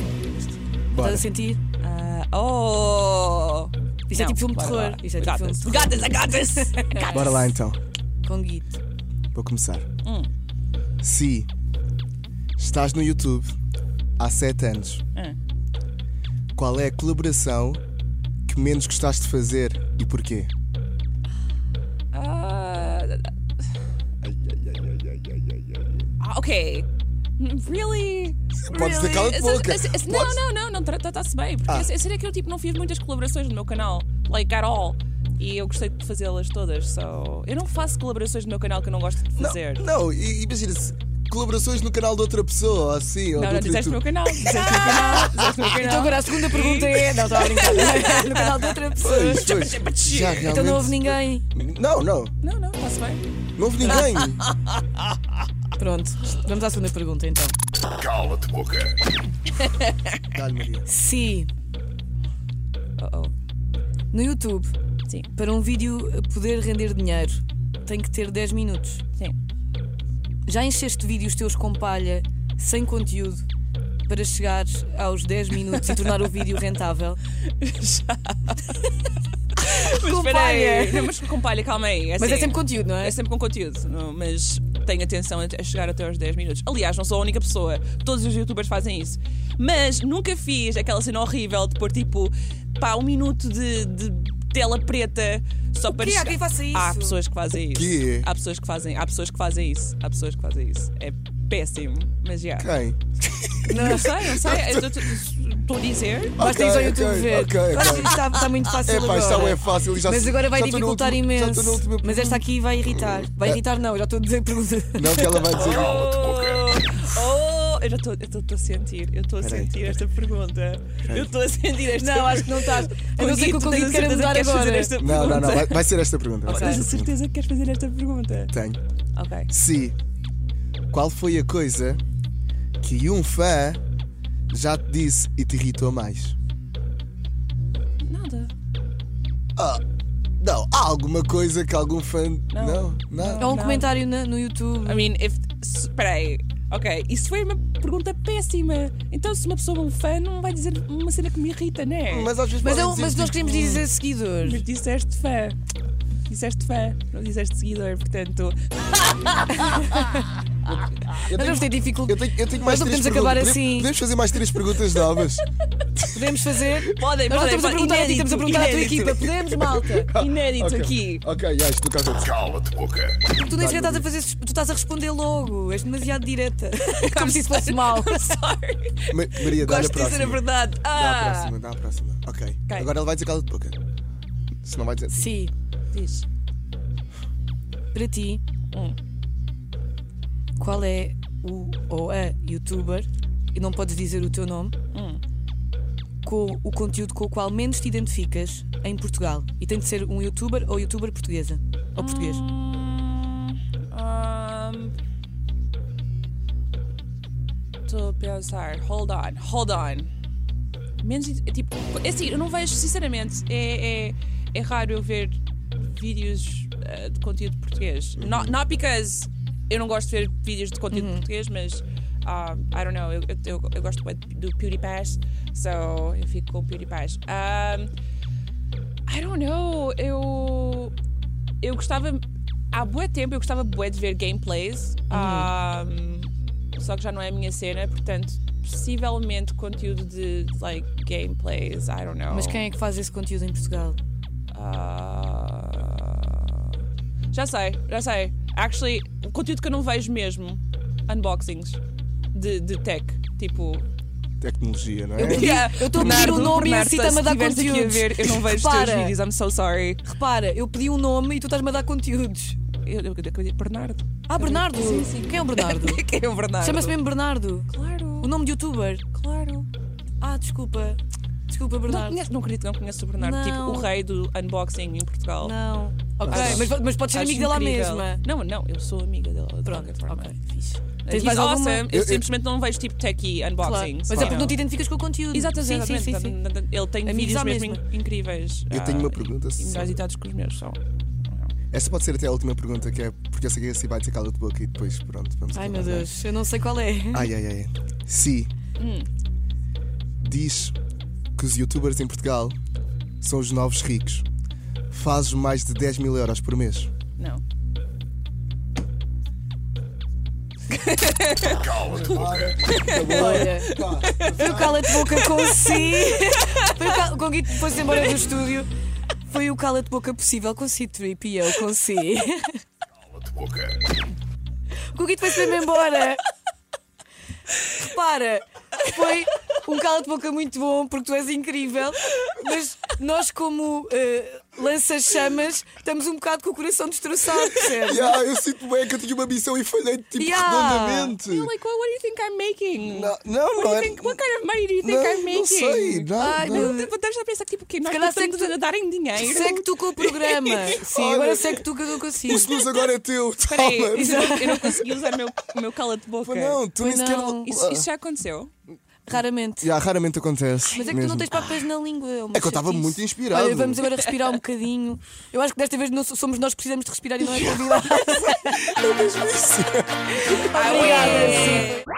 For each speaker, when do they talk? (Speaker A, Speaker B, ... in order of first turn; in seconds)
Speaker A: 0.9-1.3, 7.1-7.8, 9.3-9.9, 11.0-11.5, 12.6-13.5, 14.2-15.0, 16.6-17.8, 18.5-20.5, 24.2-26.1, 28.6-30.4, 39.4-45.7, 49.0-52.3, 53.6-54.4, 60.3-60.9, 97.7-98.3, 102.6-104.8, 106.4-108.2, 108.8-113.6, 115.0-116.0, 119.4-119.7, 121.0-121.3, 125.0-127.1, 128.5-128.8, 129.5-130.0, 130.9-132.0, 132.8-133.8, 134.5-136.4, 139.6-139.8, 140.4-143.5, 152.1-153.4, 161.2-165.4, 169.9-172.4, 173.4-174.1, 179.1-183.8, 184.6-185.3, 218.2-218.6, 254.4-256.6, 276.2-276.7, 281.9-282.3, 284.1-284.6, 288.7-289.9, 291.7-296.1, 297.1-298.5, 300.2-300.8, 301.4-302.6, 303.2-304.2, 304.9-306.9, 311.8-314.9, 337.8-341.5, 342.9-344.2, 344.8-346.7, 350.8-351.6, 352.2-354.7, 356.2-357.9, 359.6-361.3, 362.3-363.8, 367.3-370.4
Speaker B: 1.0-1.6, 4.1-7.5, 8.2-8.8, 44.5-49.5, 50.5-51.5, 55.8-57.6, 60.9-61.5, 64.1-64.7, 65.3-69.0, 70.5-73.5, 74.1-77.2, 79.7-81.1, 82.2-83.2, 95.8-97.2, 103.7-104.1, 106.4-115.6, 122.0-125.0, 126.5-126.8, 143.4-145.1, 152.6-154.6, 159.7-160.2, 161.3-163.9, 166.1-170.1, 173.4-178.4, 185.1-185.5, 187.9-188.4, 190.6-194.8, 196.2-202.4, 220.9-221.3, 235.1-235.5, 242.3-244.0, 255.2-259.2, 260.1-262.6, 264.3-266.0, 266.6-267.7, 268.2-269.1, 270.2-272.3, 273.2-273.9, 275.4-278.2, 279.6-281.9, 283.6-286.4, 287.0-287.8, 295.5-297.3, 313.1-318.7, 319.3-322.6, 324.9-326.2, 327.6-338.1, 340.1-341.2, 346.2-346.9, 347.9-348.6, 349.1-352.5, 353.9-354.8, 356.8-357.5, 359.1-359.7, 360.8-368.6, 370.2-371.8
Speaker C: 1.8-7.6, 10.0-10.3, 22.1-23.3, 26.2-39.9, 43.4-50.6, 52.4-53.2, 53.8-54.8, 58.4-58.7, 59.6-60.0, 63.0-63.3, 77.6-78.8, 79.6-102.7, 103.7-106.4, 107.8-108.6, 115.5-125.9, 126.5-128.5, 129.2-129.5, 138.0-138.5, 142.5-144.0, 144.8-152.3, 153.4-153.8, 154.4-155.6, 156.3-160.0, 160.7-161.2, 166.9-169.6, 170.1-171.2, 177.0-181.6, 185.9-186.2, 188.7-189.0, 194.9-195.2, 202.0-204.9, 207.9-210.1, 211.0-227.9, 229.1-230.9, 231.6-242.7, 244.5-246.8, 247.3-251.8, 252.3-253.9, 255.2-260.0, 262.8-266.9, 267.7-268.3, 269.1-269.7, 271.9-275.5, 276.2-280.4, 281.0-284.6, 285.3-291.5, 298.8-299.1, 307.2-307.4, 310.7-317.0, 341.2-350.8, 352.5-352.9, 353.4-356.6, 357.4-358.5, 363.9-364.4, 370.5-371.8
Speaker D: 58.0-58.9, 116.0-116.6, 172.2-173.3, 311.6-312.5, 323.1-323.8